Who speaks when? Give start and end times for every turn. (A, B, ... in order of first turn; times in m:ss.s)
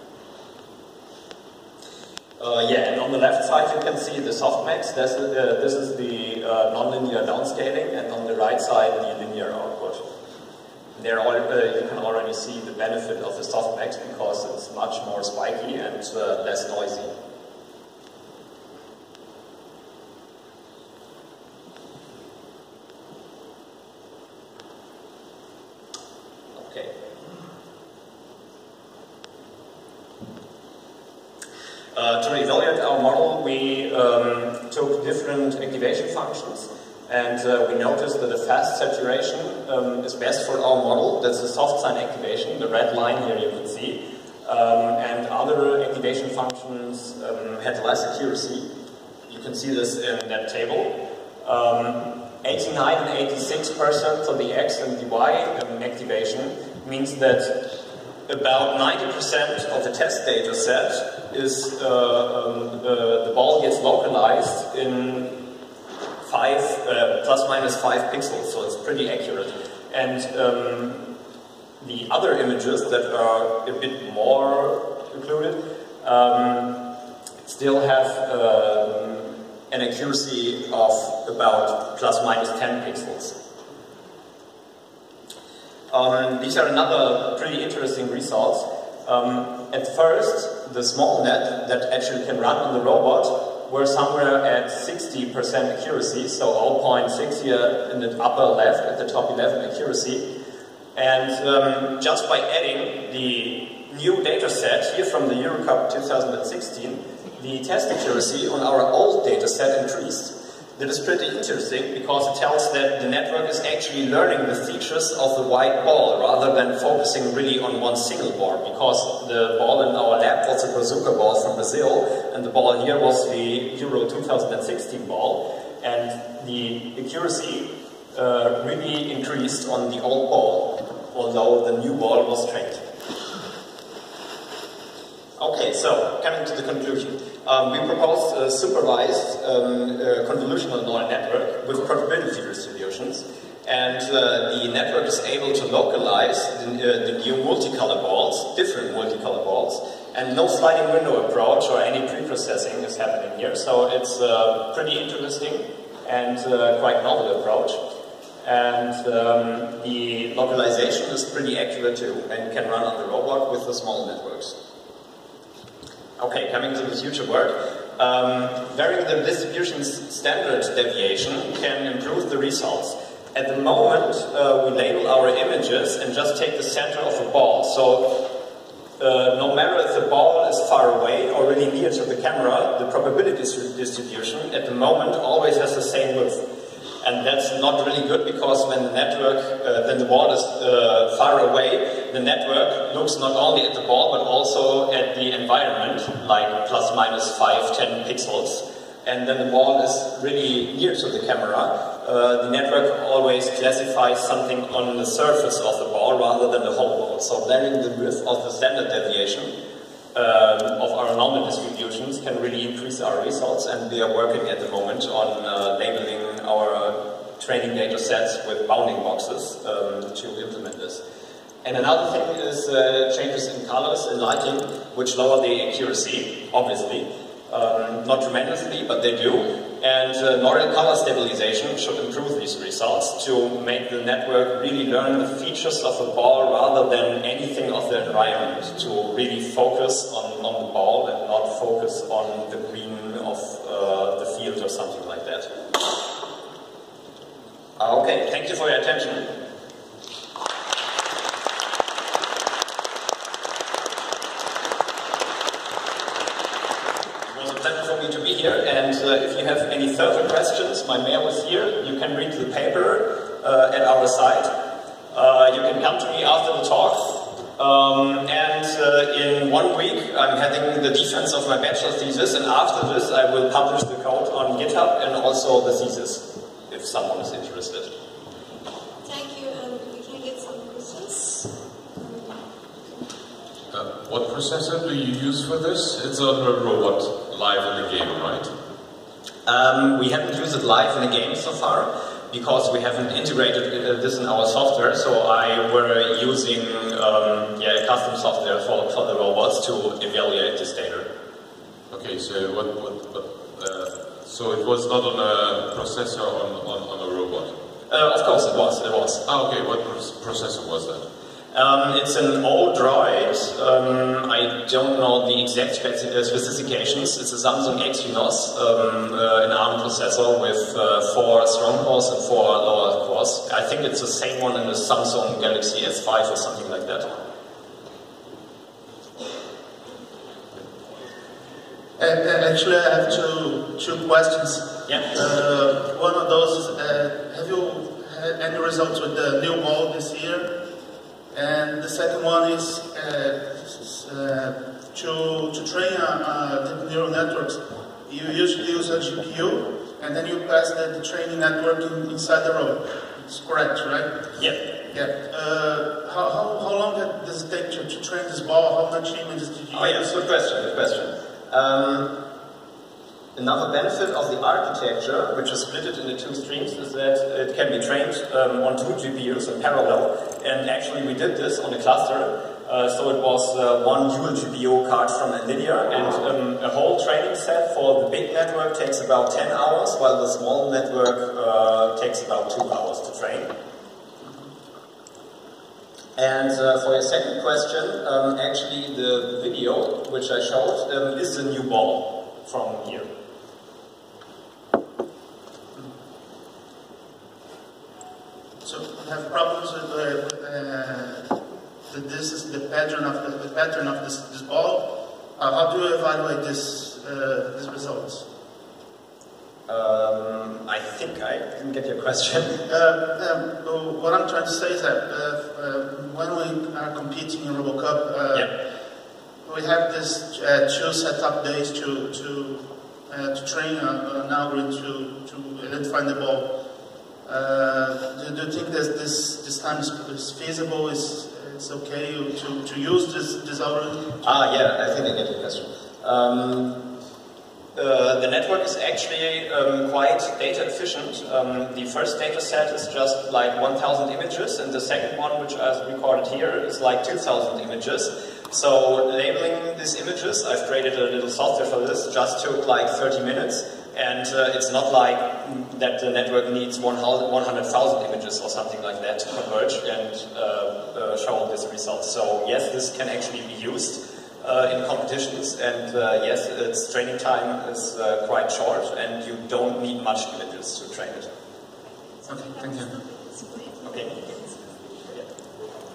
0:02.4-0:10.0 A
0:10.9-0:17.1 A
0:26.5-0:26.9 A
0:31.9-0:48.7 A
0:49.3-0:57.6 A
0:58.3-1:05.4 A
1:06.2-1:11.0 A
1:11.8-1:16.8 A
1:17.4-1:23.3 A
1:25.9-1:40.3 A
1:40.9-2:12.8 A
2:15.4-2:37.8 A
2:38.4-2:44.6 A
2:46.2-2:58.3 A
2:59.0-3:06.4 A
3:07.0-3:29.5 A
3:30.1-3:41.0 A
3:41.6-4:05.5 A
4:07.8-4:09.4 A
4:17.3-4:24.5 A
4:25.1-4:37.9 A
4:39.0-4:42.4 B
4:43.7-4:48.5 C
4:49.4-5:01.1 A
5:01.9-5:07.5 C
5:07.9-5:09.2 A
5:09.2-5:11.0 C
5:11.5-5:27.1 A
5:32.0-5:40.5 D
5:41.3-5:54.1 D
5:54.3-5:54.6 A
5:54.9-6:00.1 D
5:59.7-6:02.1 A
6:03.3-6:23.5 A
6:26.2-6:33.1 A
6:38.6-6:41.3 D
6:41.9-6:48.2 D
6:49.7-6:52.6 A
6:52.7-6:58.5 D
6:59.4-7:06.5 D
7:07.2-7:14.1 D
7:14.2-7:16.8 A
7:17.7-7:51.3 A
7:52.3-7:53.0 D
7:53.4-7:53.8 B
7:53.8-7:54.4 A